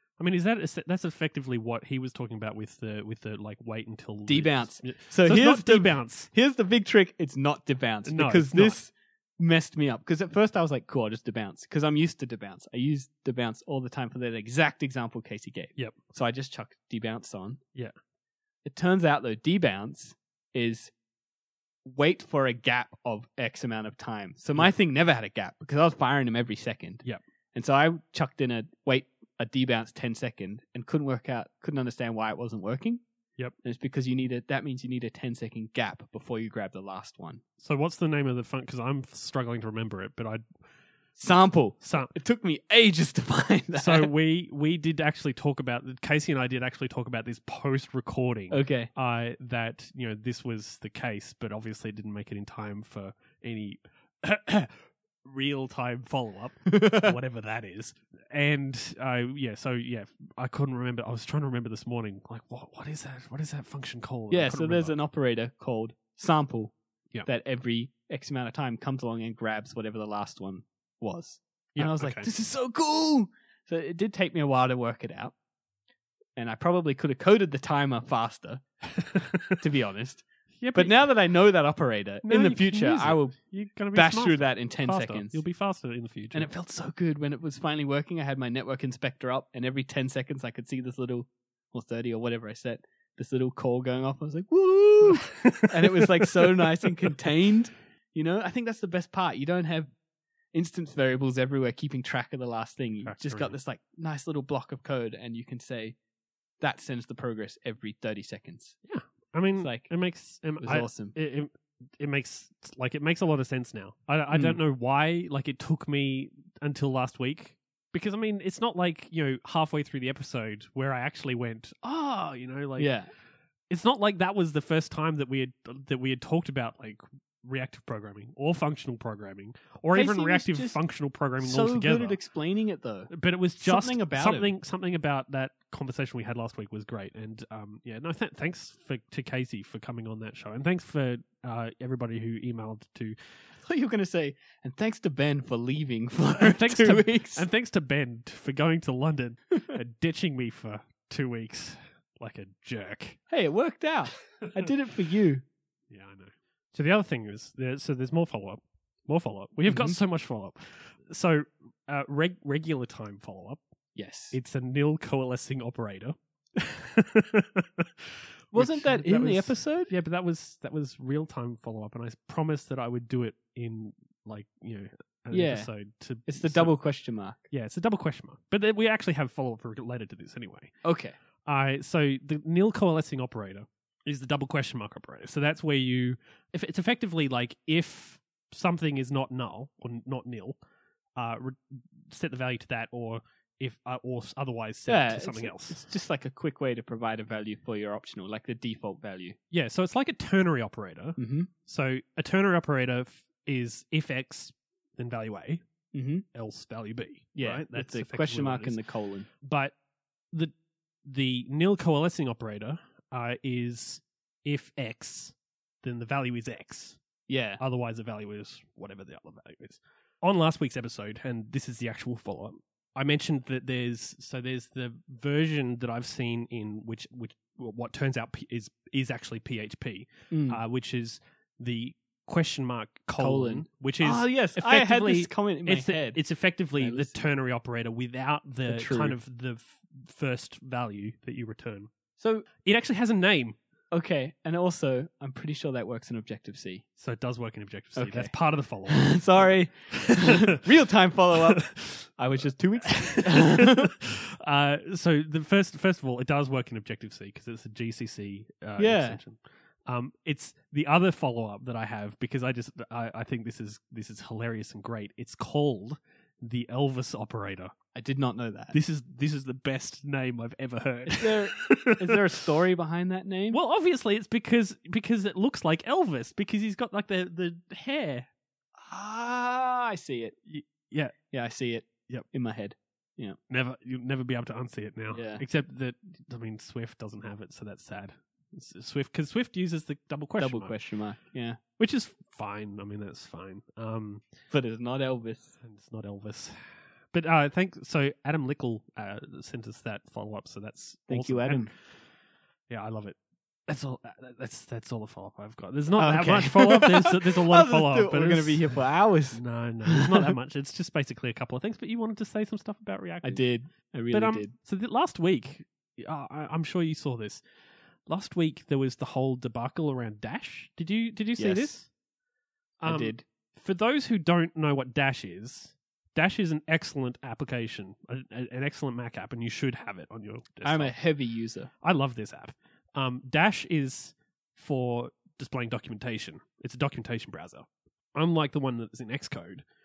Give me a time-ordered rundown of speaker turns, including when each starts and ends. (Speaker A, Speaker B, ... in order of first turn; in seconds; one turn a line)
Speaker A: 0.2-6.3
Speaker B: 4.3-17.6
Speaker A: 8.0-8.8
Speaker B: 18.6-20.9
Speaker B: 21.8-33.0
Speaker B: 33.6-37.4
Speaker A: 37.6-40.4
Speaker B: 41.2-44.1
Speaker A: 41.8-42.1
Speaker A: 43.7-65.0
Speaker B: 48.5-48.9
Speaker B: 56.7-57.1
Speaker B: 64.3-66.7
Speaker B: 67.2-75.3
Speaker A: 71.8-72.3
Speaker B: 76.4-78.6
Speaker A: 78.9-79.6
Speaker B: 79.6-83.4
Speaker A: 80.6-81.1
Speaker A: 82.2-86.5
Speaker B: 83.9-85.4
Speaker B: 86.3-99.9
Speaker A: 95.1-96.9
Speaker B: 100.5-106.0
Speaker A: 103.0-103.5
Speaker B: 106.6-108.8
Speaker A: 108.8-122.9
Speaker B: 109.6-109.9
Speaker B: 110.6-111.1
Speaker B: 114.3-114.6
Speaker B: 122.8-123.1
Speaker A: 123.7-132.2
Speaker B: 129.9-130.8
Speaker B: 131.4-134.5
Speaker A: 133.1-143.2
Speaker B: 143.5-147.4
Speaker A: 146.4-153.2
Speaker B: 153.3-155.4
Speaker A: 155.9-163.6
Speaker B: 159.7-160.0
Speaker B: 163.9-164.3
Speaker A: 164.3-176.7
Speaker B: 168.5-169.9
Speaker B: 175.3-175.7
Speaker B: 176.3-177.5
Speaker A: 177.5-180.7
Speaker B: 180.8-181.2
Speaker A: 181.4-190.6
Speaker A: 191.2-195.8
Speaker B: 194.9-199.4
Speaker A: 199.5-205.6
Speaker B: 201.2-201.5
Speaker B: 205.9-206.2
Speaker A: 206.3-208.8
Speaker B: 207.3-209.3
Speaker A: 209.4-209.7
Speaker A: 211.1-217.0
Speaker B: 217.3-217.6
Speaker A: 217.6-241.9
Speaker B: 230.3-230.6
Speaker B: 233.2-236.2
Speaker B: 236.8-237.2
Speaker B: 238.7-239.2
Speaker B: 242.2-242.4
Speaker A: 242.6-243.6
Speaker B: 243.9-246.8
Speaker A: 247.0-250.6
Speaker B: 247.9-248.3
Speaker B: 248.9-253.9
Speaker A: 251.6-252.1
Speaker A: 252.8-267.7
Speaker B: 258.8-259.2
Speaker B: 267.9-268.7
Speaker A: 268.7-272.2
Speaker B: 271.1-273.6
Speaker A: 273.5-278.3
Speaker B: 278.8-280.4
Speaker A: 280.5-281.1
Speaker B: 281.3-283.4
Speaker A: 283.5-290.7
Speaker B: 285.1-285.4
Speaker B: 290.4-291.6
Speaker A: 291.8-294.2
Speaker B: 294.5-295.5
Speaker A: 295.6-296.6
Speaker A: 297.1-301.8
Speaker B: 301.1-301.7
Speaker A: 302.7-303.2
Speaker A: 303.7-308.6
Speaker B: 306.0-310.3
Speaker A: 309.3-313.4
Speaker B: 313.2-314.5
Speaker A: 314.1-317.4
Speaker A: 318.1-321.9
Speaker B: 321.4-321.7
Speaker A: 322.8-330.9
Speaker B: 322.8-323.2
Speaker B: 330.6-331.7
Speaker A: 331.8-339.6